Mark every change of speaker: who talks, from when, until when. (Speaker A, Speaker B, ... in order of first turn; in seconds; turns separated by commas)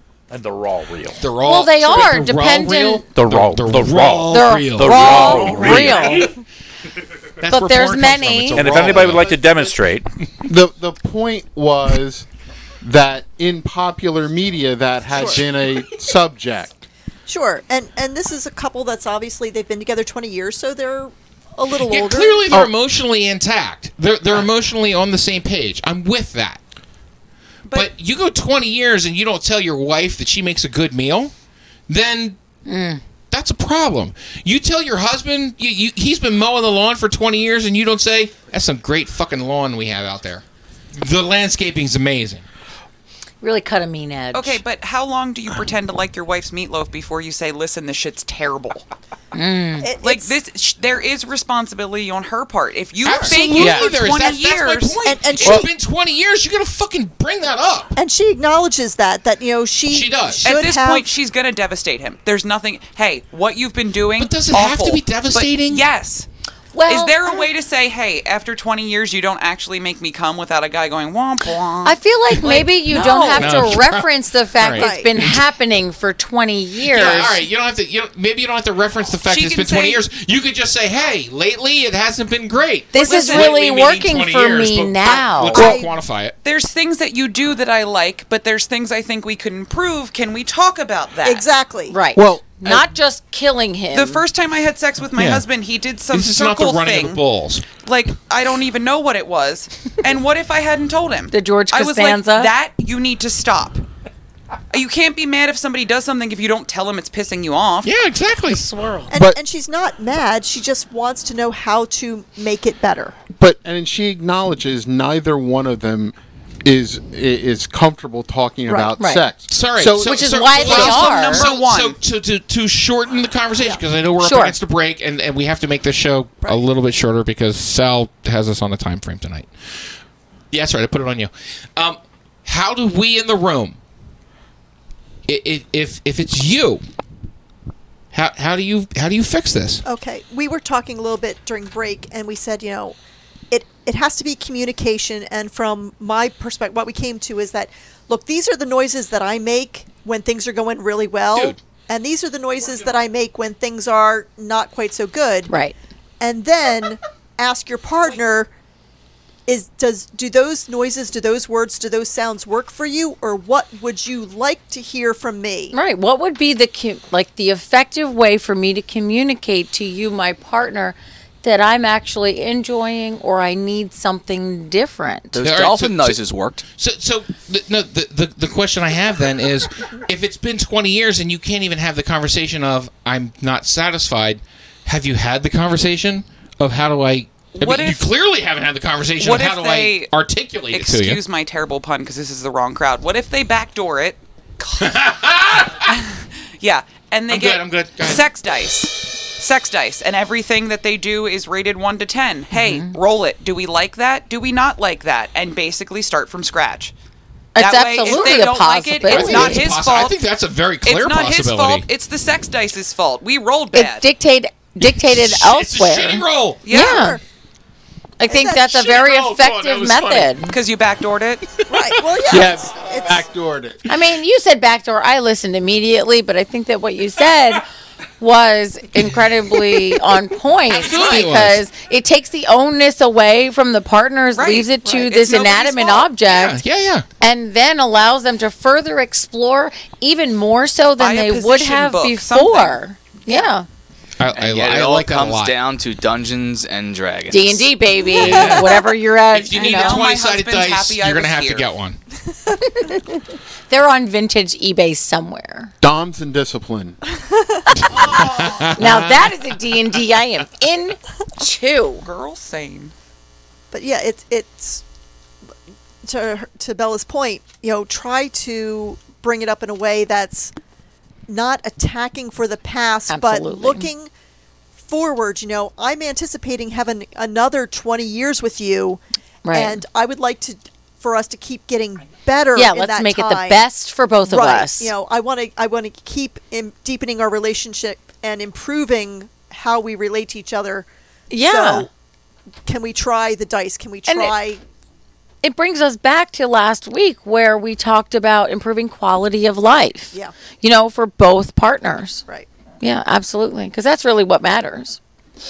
Speaker A: 0.3-1.2, Speaker B: 1.2-6.2, Speaker C: 1.4-3.0, Speaker A: 3.1-6.1, Speaker C: 4.3-6.3, Speaker B: 7.4-9.4, Speaker C: 7.5-8.7, Speaker A: 8.6-10.1, Speaker D: 8.8-9.1, Speaker D: 10.5-12.3, Speaker D: 12.8-16.8, Speaker E: 15.1-15.4, Speaker E: 17.3-22.6, Speaker B: 21.8-26.6, Speaker B: 27.7-31.3, Speaker B: 31.9-32.4, Speaker C: 32.7-33.0, Speaker B: 33.3-40.4, Speaker B: 41.0-42.5, Speaker C: 43.4-44.6, Speaker F: 44.3-48.9, Speaker C: 49.3-49.9, Speaker E: 49.8-50.4, Speaker F: 50.0-55.0, Speaker B: 53.0-57.9, Speaker E: 53.0-53.4, Speaker D: 53.5-54.0, Speaker E: 55.0-55.7, Speaker E: 58.0-61.1, Speaker B: 59.9-60.5, Speaker F: 60.4-66.3, Speaker B: 64.2-65.9, Speaker C: 66.7-67.3, Speaker F: 66.9-73.6, Speaker C: 71.8-77.4, Speaker B: 73.3-75.4, Speaker E: 74.8-75.1, Speaker B: 76.9-86.3, Speaker F: 79.3-80.0, Speaker C: 82.9-85.7, Speaker F: 83.0-83.6, Speaker E: 85.5-85.9, Speaker F: 86.4-91.5, Speaker E: 91.2-92.0, Speaker C: 91.9-94.2, Speaker D: 92.2-92.8, Speaker F: 93.9-97.2, Speaker B: 95.1-95.5, Speaker B: 96.1-97.7, Speaker F: 97.8-103.8, Speaker C: 101.3-102.5, Speaker F: 104.7-107.9, Speaker B: 107.8-108.7, Speaker E: 109.1-113.2, Speaker D: 109.1-109.4, Speaker D: 113.4-120.4, Speaker E: 118.7-118.9, Speaker C: 119.0-119.2, Speaker B: 119.5-129.5, Speaker C: 120.0-121.5, Speaker F: 120.5-122.0, Speaker C: 124.2-124.5, Speaker B: 130.5-133.8, Speaker B: 135.3-136.8, Speaker B: 138.1-139.8, Speaker E: 139.8-143.0, Speaker E: 143.5-155.5, Speaker C: 155.5-155.8, Speaker E: 156.2-158.5, Speaker E: 159.5-165.8, Speaker C: 165.7-175.4, Speaker G: 175.3-176.6, Speaker B: 175.4-176.2, Speaker B: 176.8-191.2, Speaker F: 187.5-188.1, Speaker F: 189.2-190.1, Speaker F: 190.7-194.9, Speaker B: 194.8-195.9, Speaker F: 195.8-206.9, Speaker B: 197.3-198.3, Speaker C: 202.5-202.9, Speaker C: 207.6-209.7, Speaker F: 207.6-210.2, Speaker B: 209.1-211.9, Speaker F: 210.8-214.1, Speaker C: 213.7-217.2, Speaker B: 214.8-216.6, Speaker F: 216.6-217.1, Speaker E: 216.7-217.2, Speaker C: 218.2-220.5, Speaker E: 218.3-218.9, Speaker B: 218.7-220.3, Speaker F: 220.5-221.5, Speaker E: 221.7-223.2, Speaker D: 222.3-223.8, Speaker C: 223.9-227.7, Speaker C: 228.2-236.6, Speaker B: 230.7-231.6, Speaker F: 230.9-231.2, Speaker F: 234.3-236.1, Speaker B: 236.3-237.1, Speaker C: 237.2-243.7, Speaker F: 241.0-243.4, Speaker B: 244.2-245.6, Speaker G: 244.3-247.7, Speaker C: 247.3-250.0, Speaker B: 248.2-248.8, Speaker E: 248.3-248.6, Speaker B: 249.3-252.0, Speaker F: 249.5-251.7, Speaker C: 253.7-255.7, Speaker D: 255.8-257.0, Speaker E: 257.3-257.6, Speaker B: 257.9-259.2, Speaker C: 258.8-262.0, Speaker F: 262.0-262.9, Speaker E: 263.7-264.8, Speaker E: 266.0-270.5, Speaker E: 271.3-274.1, Speaker C: 273.1-273.9, Speaker E: 274.8-283.6, Speaker C: 279.4-279.8, Speaker C: 282.6-284.9, Speaker E: 284.2-290.9, Speaker C: 291.3-291.9, Speaker E: 291.4-291.9, Speaker E: 292.7-294.6, Speaker C: 294.1-294.3, Speaker C: 295.4-302.2, Speaker C: 302.8-305.0